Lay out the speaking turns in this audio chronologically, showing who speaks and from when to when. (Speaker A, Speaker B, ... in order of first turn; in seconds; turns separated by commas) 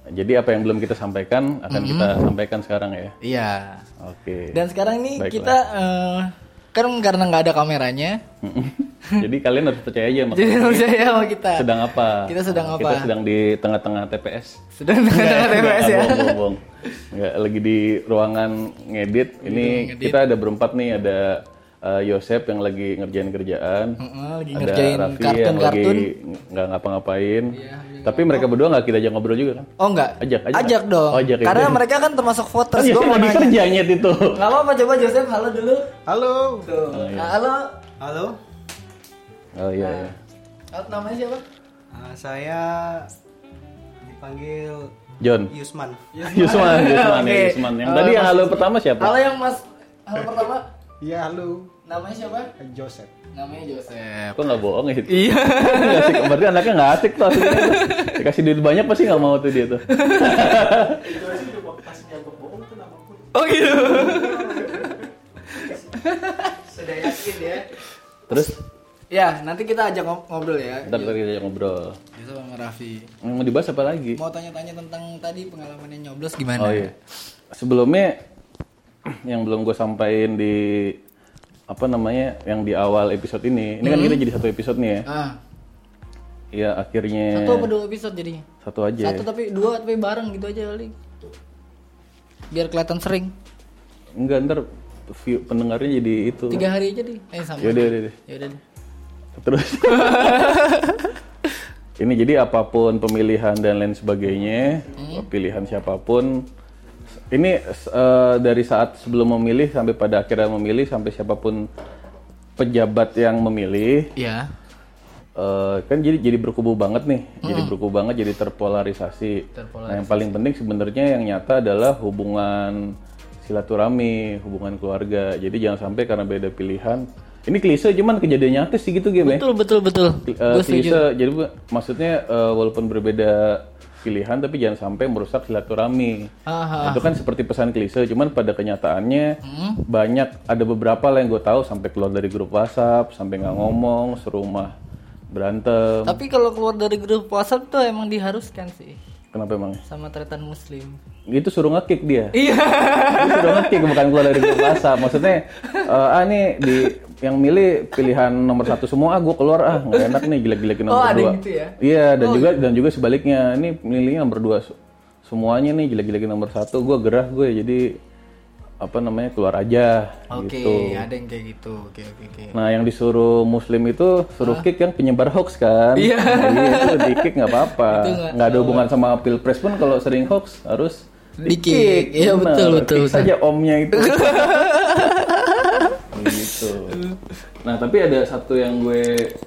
Speaker A: 0.1-3.1, Speaker B: 1.7-2.3, Speaker B: 3.2-3.8, Speaker A: 4.0-4.6, Speaker B: 4.5-8.2, Speaker A: 5.2-5.5, Speaker A: 8.4-10.9, Speaker B: 10.3-13.1, Speaker A: 11.5-14.6, Speaker B: 14.7-16.4, Speaker A: 15.1-24.0, Speaker B: 19.4-20.2, Speaker B: 24.0-26.1, Speaker A: 24.5-29.7, Speaker B: 27.5-28.5, Speaker B: 29.8-33.6, Speaker A: 30.2-31.8, Speaker A: 32.7-34.4, Speaker B: 34.3-35.9, Speaker C: 36.0-36.7, Speaker B: 36.6-37.8, Speaker A: 36.9-37.3, Speaker C: 38.0-38.4, Speaker A: 39.5-40.1, Speaker B: 39.8-40.1, Speaker B: 40.7-41.4, Speaker C: 41.9-43.1, Speaker C: 44.0-44.9, Speaker A: 45.2-45.5, Speaker C: 45.5-46.1, Speaker B: 46.1-50.7, Speaker A: 46.2-49.2, Speaker C: 51.0-51.7, Speaker B: 51.9-52.5, Speaker C: 52.6-53.1, Speaker B: 53.3-54.4, Speaker A: 54.3-61.1, Speaker B: 55.1-56.5, Speaker B: 57.2-58.2, Speaker B: 59.9-60.8, Speaker C: 60.9-65.9, Speaker B: 63.3-65.0, Speaker B: 65.5-67.6, Speaker C: 66.7-67.6, Speaker A: 68.3-68.6, Speaker B: 69.1-71.2, Speaker A: 70.8-72.0, Speaker B: 72.1-73.1, Speaker A: 73.2-74.2, Speaker B: 74.2-76.9, Speaker A: 76.6-76.9, Speaker A: 77.5-78.2, Speaker A: 79.0-81.0, Speaker A: 81.7-85.0, Speaker B: 83.8-84.2, Speaker B: 85.0-85.4, Speaker A: 86.5-87.7, Speaker B: 87.3-88.4, Speaker A: 88.6-89.2, Speaker B: 89.0-91.0, Speaker B: 92.5-93.3, Speaker A: 94.2-96.7, Speaker B: 96.5-98.6, Speaker A: 97.6-98.1, Speaker A: 99.4-100.8, Speaker B: 99.8-101.1, Speaker A: 102.0-106.4, Speaker B: 104.9-105.3, Speaker A: 107.3-111.6, Speaker A: 112.6-114.1, Speaker B: 114.2-114.5, Speaker A: 115.3-129.4, Speaker B: 117.4-117.7, Speaker B: 119.5-120.4, Speaker B: 129.2-131.1, Speaker A: 130.2-136.3, Speaker B: 136.4-137.1, Speaker A: 136.8-139.3, Speaker B: 139.4-139.9, Speaker A: 139.9-144.7, Speaker A: 145.3-146.2, Speaker B: 146.1-149.0, Speaker A: 149.3-149.8, Speaker B: 149.9-151.0, Speaker A: 151.3-152.3, Speaker B: 152.3-155.9, Speaker A: 153.1-168.0, Speaker B: 156.6-156.9, Speaker B: 159.8-160.3, Speaker B: 160.8-162.5, Speaker A: 168.8-171.0, Speaker B: 170.3-172.6, Speaker A: 172.5-184.9, Speaker B: 174.4-174.7, Speaker B: 175.9-178.9, Speaker B: 181.4-183.3, Speaker B: 183.9-187.3, Speaker A: 186.1-187.0, Speaker A: 187.6-189.3